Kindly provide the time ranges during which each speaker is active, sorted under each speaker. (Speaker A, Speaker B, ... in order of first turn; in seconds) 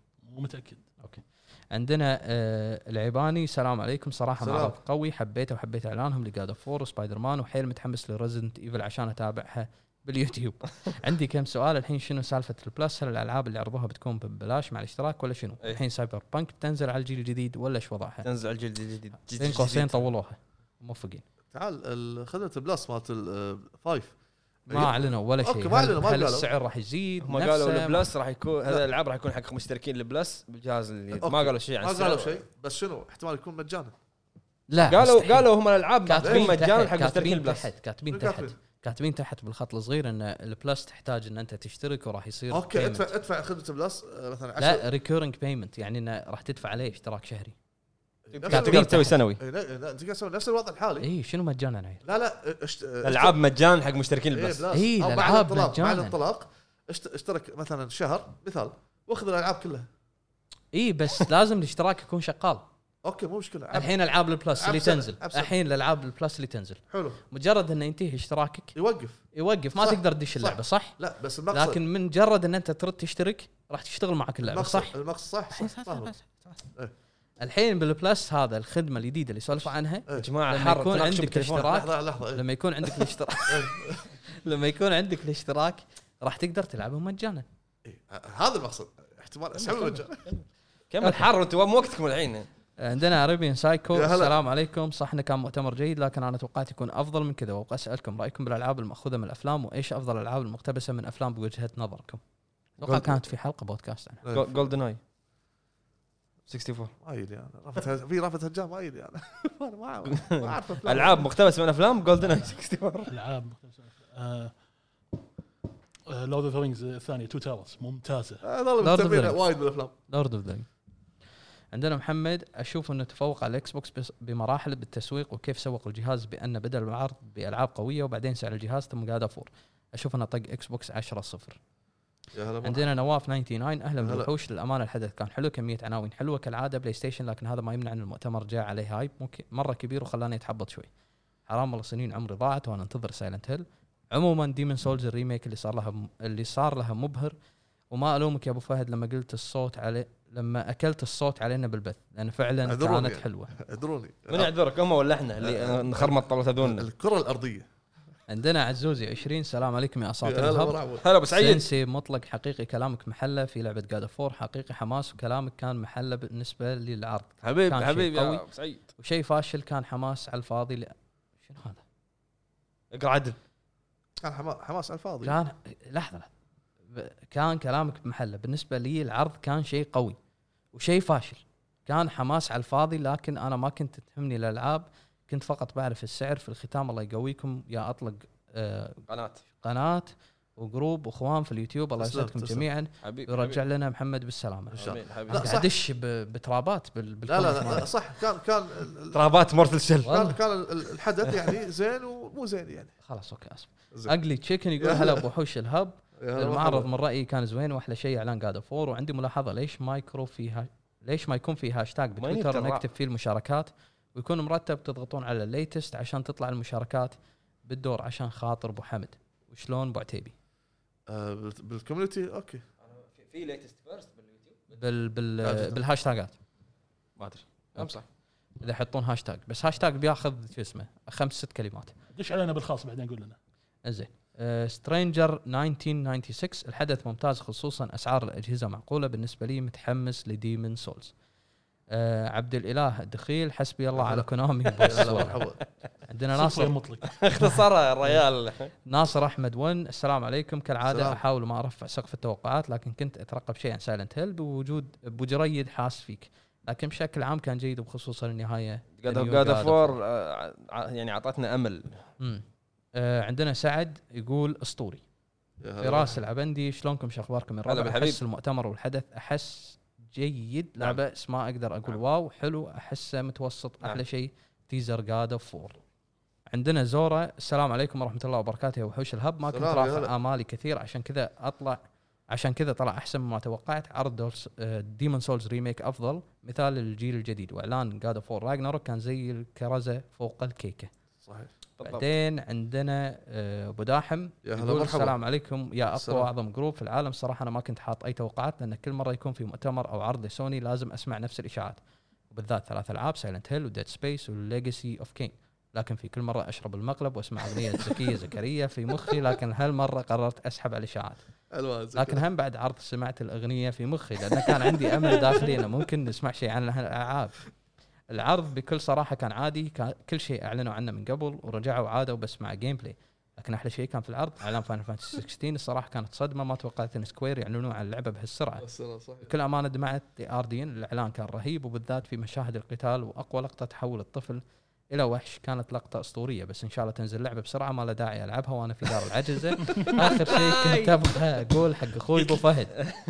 Speaker A: 0.2-0.8, 113.1-114.5, 116.1-118.4, 232.1-233.4, 246.3-247.1
Speaker B: 1.0-18.2, 19.3-21.2, 24.7-28.1, 34.7-35.5, 36.0-43.1, 44.6-47.5, 48.5-49.2, 51.0-52.0, 54.7-56.1, 60.7-62.6, 63.7-68.7, 69.3-71.0, 71.5-74.9, 77.4-87.5, 91.0-91.3, 92.8-102.2, 102.8-104.2, 118.8-119.4, 120.1-120.7, 121.7-131.6, 132.6-140.9, 141.5-147.3, 147.9-153.5, 158.3-168.4, 169.0-171.8, 175.2-176.3, 176.9-180.2, 180.7-189.0, 189.5-197.9, 203.1-220.3, 224.7-226.3, 227.8-228.0, 228.6-231.9, 233.8-241.1, 241.9-245.4, 246.1-246.7, 247.3-247.6, 248.8-260.0, 262.2-262.4, 262.9-265.0, 265.8-275.8, 276.5-281.8, 282.3-290.9, 291.8-301.8, 302.3-311.2, 311.9-317.4, 318.1-328.7, 329.2-342.8
Speaker C: 4.4-4.8, 21.5-24.1, 24.7-26.5, 31.1-33.9, 36.2-36.5, 38.1-38.6, 42.5-44.9, 48.3-51.1, 52.0-53.4, 54.3-59.9, 63.0-63.9, 64.6-65.5, 66.9-67.2, 68.7-69.2, 69.8-71.8, 74.4-76.2, 81.6-82.4, 83.5-84.0, 87.8-90.3, 93.9-94.4, 102.8-103.2, 104.2-104.7, 107.0-111.3, 118.4-119.9, 132.3-132.8, 134.0-134.3, 152.6-154.5, 155.4-157.7, 160.2-161.0, 174.2-175.4, 192.0-192.7, 194.7-195.7, 197.2-199.2, 200.0-202.9, 204.8-205.2, 206.2-206.9, 221.1-222.6, 225.4-225.8, 243.9-244.2, 244.8-245.6, 250.8-251.2, 265.6-266.2, 279.5-280.1, 291.2-291.5, 294.4-295.1, 295.9-296.3, 311.5-312.2, 314.8-315.2, 328.6-329.3
Speaker D: 18.2-20.0, 27.2-32.4, 34.8-37.6, 48.3-49.4, 53.0-54.6, 80.1-81.8, 89.6-92.5, 104.3-105.0, 106.5-106.9, 110.1-113.1, 154.3-156.9, 161.0-161.7, 167.4-168.8, 172.9-173.4, 189.1-189.4, 193.0-193.6, 194.7-195.6, 199.1-200.3, 212.2-212.8, 222.8-224.6, 227.2-228.0, 244.8-245.4, 247.0-248.7, 259.0-262.0, 267.6-268.2, 291.8-292.0, 339.9-341.0, 342.2-342.9